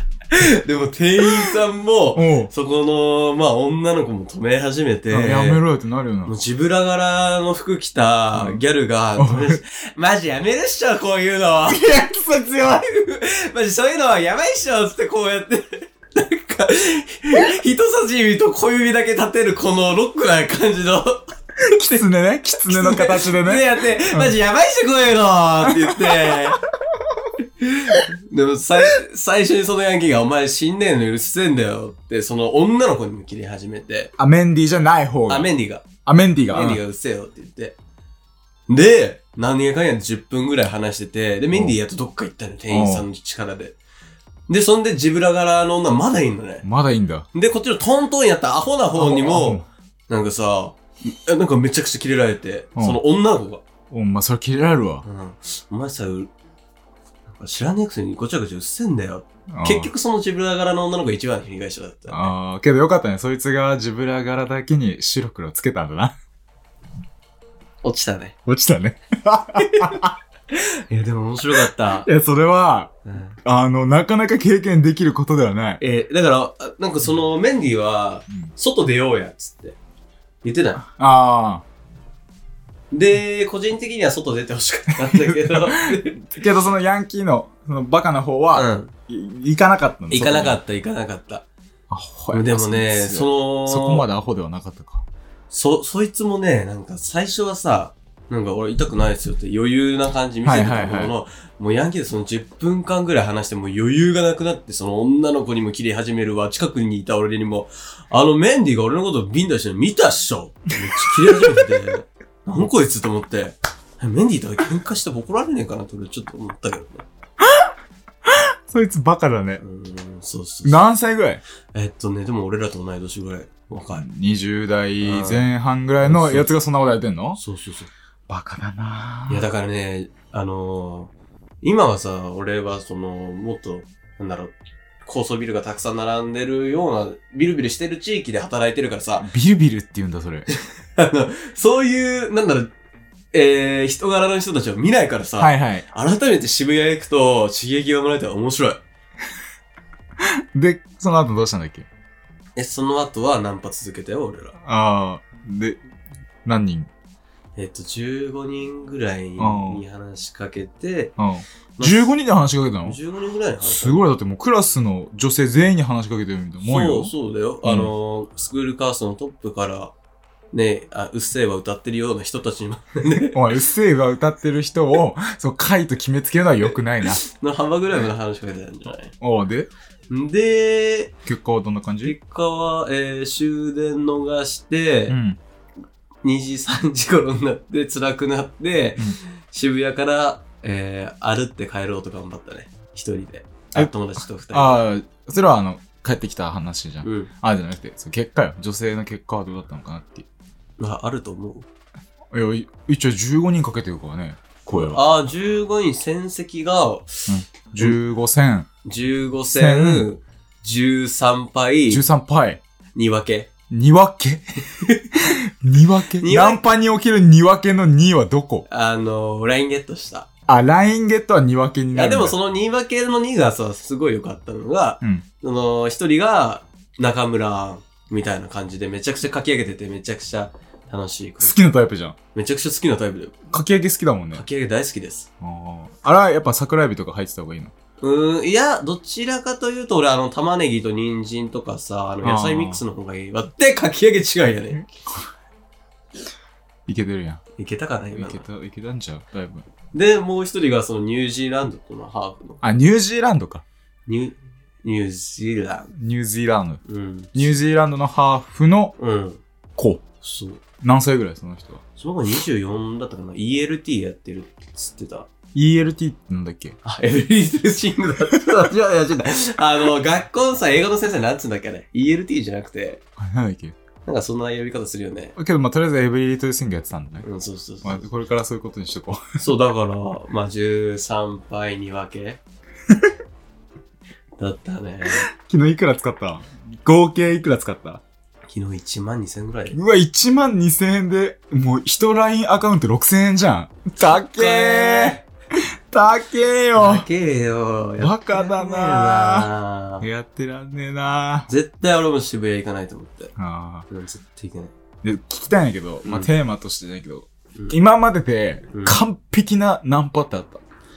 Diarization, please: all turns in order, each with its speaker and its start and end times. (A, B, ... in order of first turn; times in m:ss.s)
0:00.3-0:05.6 A
0:02.2-0:02.5 B
0:05.1-0:06.3 B
0:06.2-0:12.1 A
0:08.3-0:08.6 B
0:09.2-0:09.6 B
0:11.7-0:12.8 B
0:12.7-0:22.1 A
0:21.7-0:24.3 B
0:22.7-0:26.6 A
0:25.6-0:26.5 B
0:27.6-0:34.1 A
0:34.2-0:35.5 B
0:35.3-0:35.9 A
0:36.0-0:36.8 B
0:36.5-0:37.8 A
0:38.7-0:43.8 A
0:42.7-0:43.0 B
0:44.5-0:46.6 A
0:46.6-0:47.3 B
0:47.3-0:53.6 A
0:49.0-0:49.6 B
0:53.9-0:55.0 B
0:55.0-0:56.3 A
0:57.3-1:02.2 A
0:59.5-0:59.9 B
1:02.1-1:06.1 B
1:07.8-1:08.4 A
1:08.4-1:10.1 B
1:09.6-1:10.0 A
1:10.5-1:12.1 A
1:12.0-1:12.9 B
1:13.0-1:13.4 A
1:13.4-1:15.8 B
1:15.8-1:19.8 A
1:20.4-1:20.8 A
1:20.9-1:21.6 B
1:22.9-1:26.3 A
1:25.0-1:30.6 B
1:28.5-1:28.9 A
1:30.1-1:31.4 A
1:31.9-1:35.0 B
1:32.3-1:34.0 A
1:35.5-1:57.0 A
1:40.4-1:41.1 B
1:58.3-1:59.6 B
1:59.6-2:00.8 A
2:00.6-2:01.4 B
2:01.7-2:04.0 A
2:04.0-2:07.4 B
2:05.0-2:05.5 A
2:06.0-2:06.5 A
2:07.4-2:07.9 A
2:08.3-2:09.5 B
2:09.3-2:19.3 A
2:19.2-2:20.5 B
2:20.5-2:22.7 A
2:23.3-2:28.8 A
2:25.4-2:25.8 B
2:30.2-2:31.9 B
2:32.6-2:34.6 A
2:34.6-2:35.8 B
2:36.4-2:36.9 B
2:37.6-2:41.2 A
2:39.4-2:39.8 B
2:41.2-2:43.0 B
2:41.8-2:42.1 A
2:42.8-2:44.0 A
2:43.6-2:47.1 B
2:46.6-2:49.9 A
2:47.6-2:47.9 B
2:50.5-2:53.4 A
2:53.3-2:57.2 B
2:57.0-2:59.1 A
2:59.2-2:59.7 B
3:00.1-3:01.2 A
3:01.2-3:02.2 B
3:02.0-3:05.2 A
3:05.1-3:05.4 B
3:06.2-3:14.8 A
3:14.5-3:20.3 B
3:17.0-3:17.3 A
3:20.8-3:21.7 A
3:22.3-3:25.0 B
3:24.7-3:27.3 A
3:27.3-3:28.7 B
3:28.8-3:32.0 A
3:29.5-3:30.1 B
3:31.9-3:32.6 B
3:33.0-3:33.5 A
3:33.7-3:34.4 B
3:35.1-3:38.7 B
3:36.2-3:36.6 A
3:38.7-3:40.3 A
3:40.5-3:42.4 B
3:41.9-3:51.6 A
3:51.4-3:52.2 B
3:52.3-3:53.4 A
3:53.5-3:54.4 B
3:54.3-3:55.3 A
3:55.4-3:57.7 B
3:58.0-4:04.8 A
4:02.2-4:02.8 B
4:06.9-4:07.4 B
4:07.6-4:08.4 A
4:08.1-4:09.6 B
4:09.9-4:12.6 A
4:12.6-4:13.6 B
4:14.1-4:15.9 A
4:15.9-4:16.8 B
4:16.8-4:17.3 A
4:17.3-4:19.0 B
4:19.0-4:19.4 A
4:19.8-4:20.0 B
4:20.2-4:20.6 A
4:20.8-4:21.8 B
4:22.0-4:25.3 A
4:25.5-4:26.8 B
4:26.8-4:33.0 A
4:33.2-4:33.8 B
4:34.0-4:35.4 A
4:35.4-4:37.2 B
4:37.2-4:38.1 A
4:37.8-4:39.2 B
4:39.4-4:42.4 A
4:44.4-4:45.3 A
4:45.3-4:48.0 B
4:48.5-4:49.8 A
4:49.7-4:57.0 B
4:54.0-4:55.2 A
4:56.7-5:00.1 A
4:58.0-4:59.5 B
5:00.0-5:01.5 B
5:01.5-5:03.3 A
5:03.4-5:03.9 B
5:03.9-5:04.7 A
5:05.0-5:10.6 B
5:06.0-5:06.3 A
5:08.7-5:09.0 A